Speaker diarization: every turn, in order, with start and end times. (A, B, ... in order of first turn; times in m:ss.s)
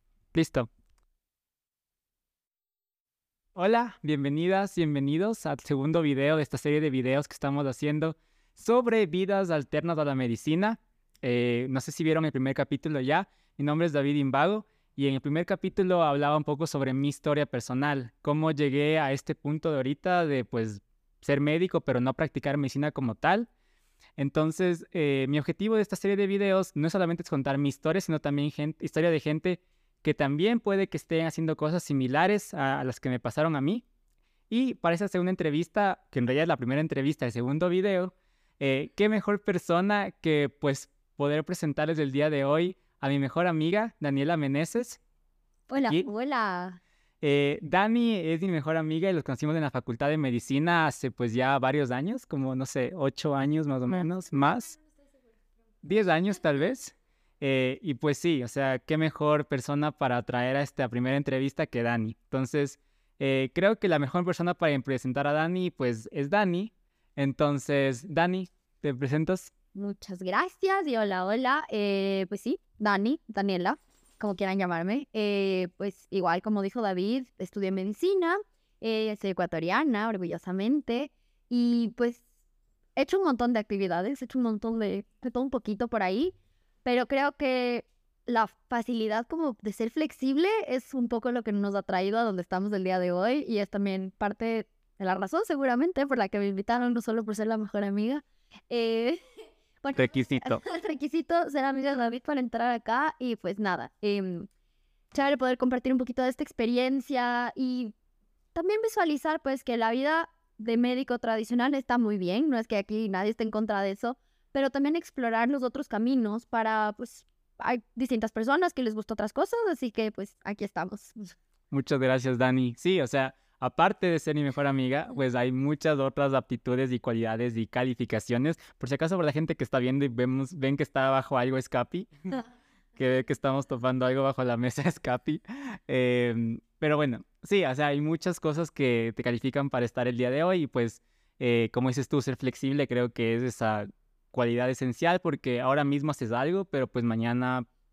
0:00.3-0:00.7 A
0:03.5-0:23.5 A
0:24.2-0:33.8 A
0:34.5-0:45.0 A
0:45.7-0:46.8 B
0:47.2-0:54.8 A
0:55.8-1:09.5 A
1:09.8-1:22.2 B
1:23.0-1:39.2 B
1:39.8-1:44.5 B
1:39.9-1:40.6 A
1:45.1-1:47.9 B
1:48.5-2:01.2 B
2:01.7-2:12.1 A
2:13.0-2:27.7 A